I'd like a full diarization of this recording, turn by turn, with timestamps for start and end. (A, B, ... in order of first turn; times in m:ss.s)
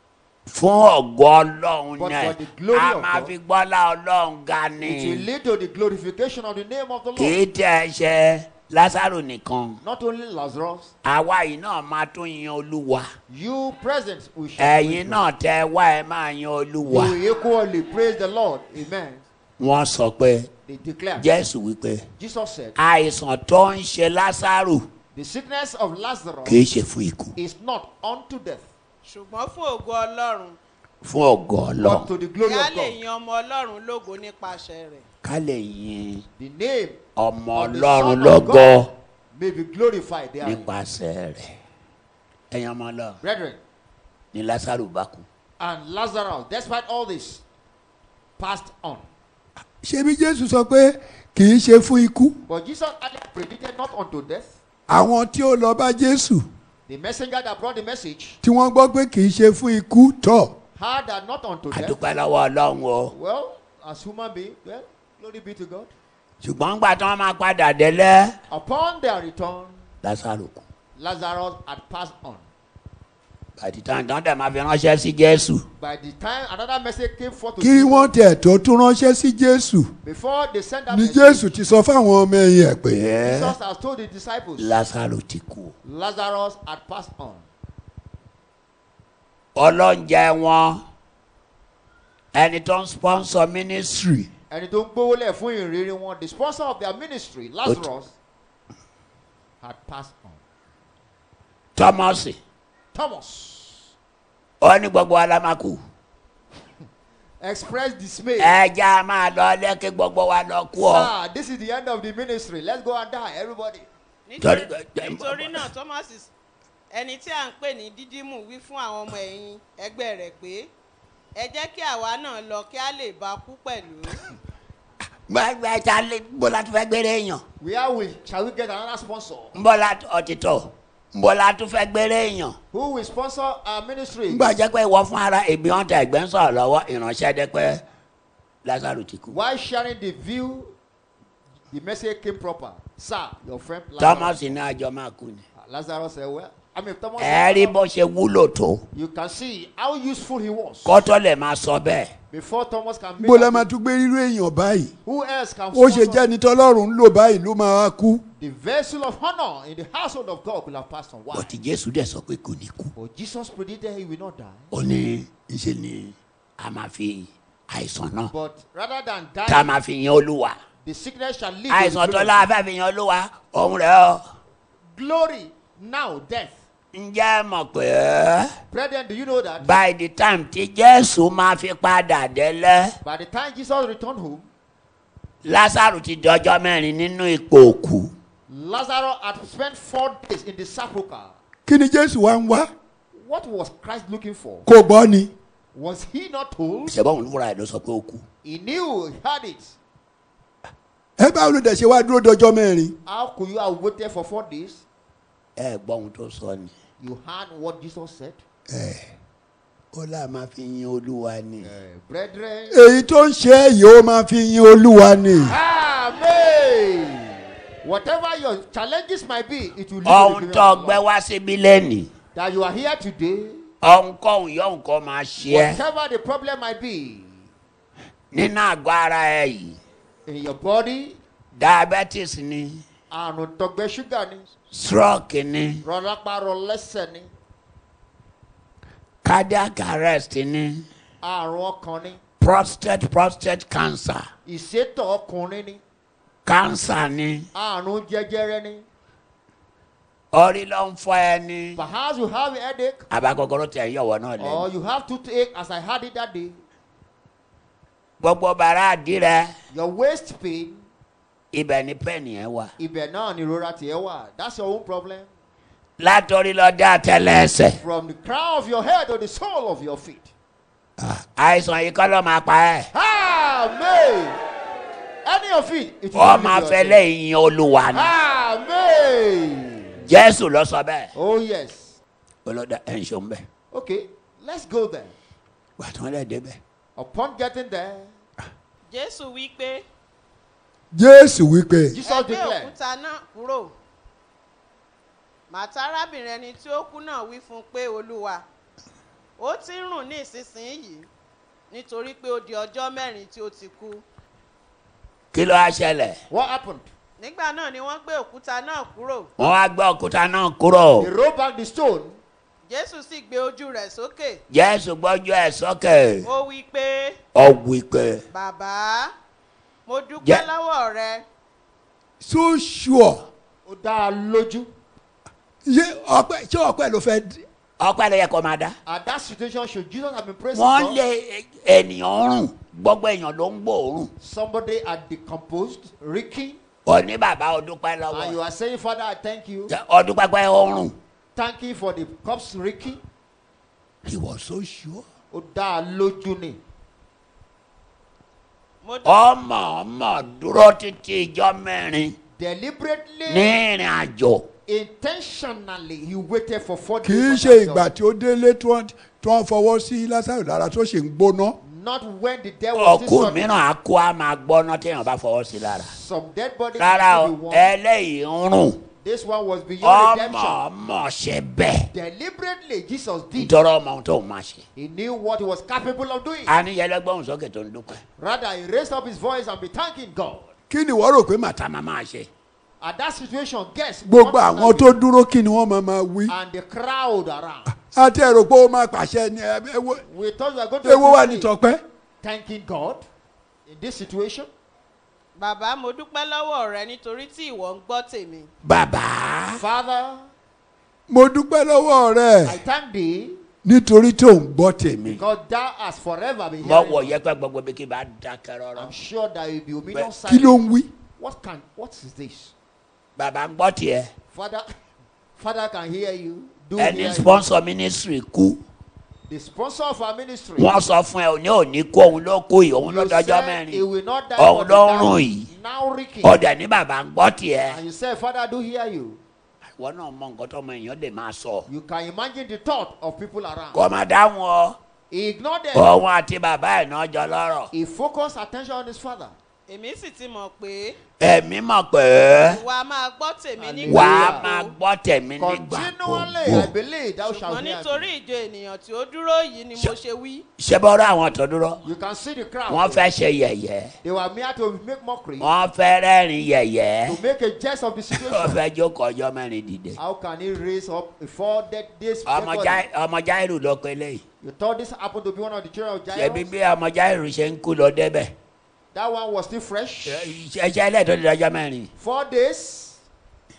0:00.5-0:05.3 A
0:01.9-0:03.3 B
0:04.8-0:07.4 B
0:07.2-0:09.8 A
0:09.8-0:10.9 B
0:11.0-0:13.0 A
0:13.3-0:15.2 B
0:14.6-0:17.2 A
0:16.8-0:19.2 B
0:19.6-0:20.5 A
0:20.6-0:21.3 B
0:21.2-0:22.1 A
0:22.2-0:22.8 B
0:22.8-0:24.9 A
0:25.1-0:26.6 B
0:26.4-0:27.4 A
0:27.4-0:28.6 B
0:29.0-0:30.6 C
0:31.0-0:32.1 A
0:31.8-0:33.0 B
0:32.4-0:35.0 C
0:35.2-0:36.2 A
0:36.4-0:40.7 B
0:37.2-0:38.9 A
0:40.4-0:41.5 A
0:42.5-0:43.2 A
0:43.2-0:43.6 B
0:44.3-0:45.2 A
0:45.6-0:47.4 B
0:48.4-0:49.0 B
0:49.8-0:52.4 D
0:52.4-0:54.5 B
0:54.9-0:56.4 D
0:56.9-0:58.4 B
0:58.4-1:00.5 D
1:00.8-1:02.0 B
1:01.7-1:03.1 A
1:03.1-1:05.9 B
1:06.4-1:08.3 A
1:08.5-1:09.8 B
1:10.0-1:10.6 A
1:11.0-1:12.4 B
1:13.6-1:15.6 A
1:15.8-1:18.1 B
1:17.6-1:19.9 D
1:20.0-1:21.6 B
1:20.9-1:22.9 D
1:22.9-1:23.5 A
1:23.2-1:24.8 B
1:24.6-1:25.7 A
1:25.8-1:27.4 B
1:29.6-1:30.8 A
1:32.3-1:34.3 A
1:34.5-1:38.1 B
1:39.6-1:40.4 B
1:41.8-1:42.4 A
1:42.9-1:43.9 B
1:44.6-1:45.8 A
1:47.4-1:48.6 B
1:48.4-1:51.1 A
1:50.7-1:53.9 B
1:54.2-1:56.3 C
1:54.4-1:55.7 A
1:56.9-2:00.7 C
2:01.3-2:04.2 C
2:05.3-2:07.4 A
2:07.6-2:09.6 B
2:09.5-2:12.6 A
2:12.7-2:14.6 B
2:14.3-2:17.8 A
2:18.6-2:19.4 A
2:19.3-2:20.7 B
2:21.7-2:24.6 B
2:24.0-2:25.4 A
2:25.5-2:27.8 B
2:27.2-2:28.8 A
2:28.9-2:31.0 B
2:30.8-2:32.1 A
2:32.3-2:33.7 B
2:33.2-2:34.9 D
2:35.0-2:36.3 B
2:35.7-2:38.2 D
2:38.3-2:41.5 B
2:41.3-2:42.9 A
2:42.9-2:44.7 B
2:44.7-2:48.3 A
2:48.3-2:49.8 B
2:49.5-2:50.6 A
2:50.8-2:52.5 B
2:51.7-2:54.2 A
2:54.9-2:56.6 B
2:56.9-2:58.5 A
2:58.7-2:59.7 B
2:59.6-3:03.0 A
3:03.0-3:04.5 B
3:05.4-3:08.1 A
3:08.5-3:11.4 B
3:11.6-3:12.7 D
3:13.1-3:14.7 B
3:14.6-3:15.3 D
3:15.7-3:17.0 B
3:16.9-3:18.2 A
3:18.4-3:19.8 B
3:21.2-3:23.0 D
3:23.0-3:24.8 B
3:25.6-3:26.7 A
3:27.0-3:28.4 B
3:29.9-3:31.7 A
3:31.6-3:32.8 B
3:32.7-3:35.5 D
3:35.4-3:41.0 B
3:40.0-3:42.1 A
3:42.3-3:43.7 B
3:43.8-3:45.8 A
3:45.4-3:47.4 B
3:48.3-3:49.8 A
3:50.2-3:51.2 B
3:51.5-3:52.8 A
3:53.1-3:54.5 B
3:54.7-3:55.8 A
3:55.8-3:57.3 B
3:59.2-4:00.9 A
4:01.2-4:02.2 B
4:02.4-4:04.3 A
4:04.4-4:05.8 B
4:06.4-4:07.5 A
4:07.5-4:08.8 B
4:10.3-4:11.8 A
4:11.8-4:13.1 B
4:13.1-4:14.7 A
4:14.4-4:16.6 B
4:18.2-4:19.5 A
4:19.7-4:20.8 B
4:21.5-4:22.7 A
4:22.8-4:25.3 B
4:26.0-4:27.8 A
4:27.7-4:30.3 B
4:31.0-4:32.9 A
4:32.9-4:34.4 B
4:35.2-4:37.1 B
4:36.1-4:38.1 A
4:37.9-4:40.0 B
4:40.0-4:41.1 A
4:41.1-4:42.0 B
4:42.4-4:43.4 A
4:43.7-4:45.1 B
4:45.8-4:46.6 A
4:47.0-4:48.1 B
4:48.9-4:49.8 C
4:50.9-4:52.0 D
4:51.9-4:52.7 B
4:52.0-4:53.7 C
4:55.5-4:58.4 C
4:59.4-5:01.1 C
5:01.7-5:04.0 C
5:05.3-5:06.2 A
5:06.3-5:06.9 B
5:07.2-5:09.3 C
5:09.4-5:11.1 A
5:11.0-5:12.2 B
5:12.7-5:14.4 C
5:14.5-5:16.3 A
5:16.2-5:17.2 C
5:17.3-5:18.2 A
5:18.3-5:19.1 C
5:19.8-5:21.2 C
5:22.2-5:23.2 D
5:23.6-5:24.7 B
5:25.6-5:27.4 D
5:27.8-5:28.8 A
5:28.8-5:31.0 B
5:30.5-5:34.1 A
5:34.2-5:36.6 B
5:36.8-5:38.4 A
5:38.1-5:39.7 B
5:39.7-5:41.0 A
5:41.3-5:43.0 B
5:44.0-5:45.0 A
5:45.3-5:46.6 B
5:48.8-5:49.2 C
5:49.0-5:52.2 A
5:52.4-5:53.6 B
5:53.3-5:54.5 A
5:54.6-5:57.9 B
5:57.0-6:01.6 D
6:01.6-6:03.5 B
6:02.7-6:05.9 A
6:05.8-6:07.7 B
6:06.8-6:08.8 A
6:09.0-6:10.7 B
6:09.8-6:11.9 A
6:11.9-6:13.6 B
6:13.3-6:14.6 A
6:14.8-6:16.5 B
6:16.4-6:18.0 A
6:18.2-6:20.5 B
6:20.7-6:21.5 D
6:21.4-6:22.3 A
6:22.8-6:25.0 B
6:24.0-6:26.3 D
6:26.3-6:27.7 B
6:27.7-6:30.0 D
6:30.0-6:31.5 B
6:30.8-6:31.8 D
6:32.2-6:33.0 B
6:33.7-6:34.5 B
6:35.4-6:38.5 C
6:38.6-6:39.6 A
6:39.5-6:40.3 B
6:41.1-6:42.6 D
6:42.4-6:43.4 B
6:43.6-6:45.0 D
6:44.9-6:45.2 A
6:45.1-6:47.2 B
6:46.6-6:48.9 A
6:48.7-6:50.6 B
6:50.2-6:50.9 D
6:51.2-6:52.5 B
6:53.2-6:54.1 A
6:54.3-6:54.6 B
6:55.4-6:57.4 B
6:56.8-6:58.6 A
6:59.3-7:00.7 B
7:00.6-7:05.5 A
7:02.8-7:06.4 B
7:06.2-7:07.8 A
7:07.7-7:09.2 B
7:09.8-7:11.7 A
7:11.7-7:13.8 B
7:13.7-7:14.8 A
7:15.1-7:15.9 B
7:15.7-7:17.7 A
7:17.7-7:19.3 B
7:19.7-7:21.0 C
7:21.2-7:22.6 A
7:22.3-7:24.8 C
7:23.6-7:24.5 B
7:23.9-7:26.7 A
7:25.4-7:28.1 B
7:27.2-7:30.4 C
7:30.6-7:31.8 A
7:31.8-7:33.1 B
7:32.7-7:33.9 A
7:34.0-7:35.5 B
7:35.4-7:37.2 A
7:37.0-7:38.6 B
7:38.1-7:40.0 A
7:40.0-7:42.8 B
7:42.2-7:44.2 A
7:44.4-7:46.5 B
7:46.1-7:48.3 A
7:48.9-7:50.3 B
7:50.0-7:51.9 A
7:52.0-7:53.0 B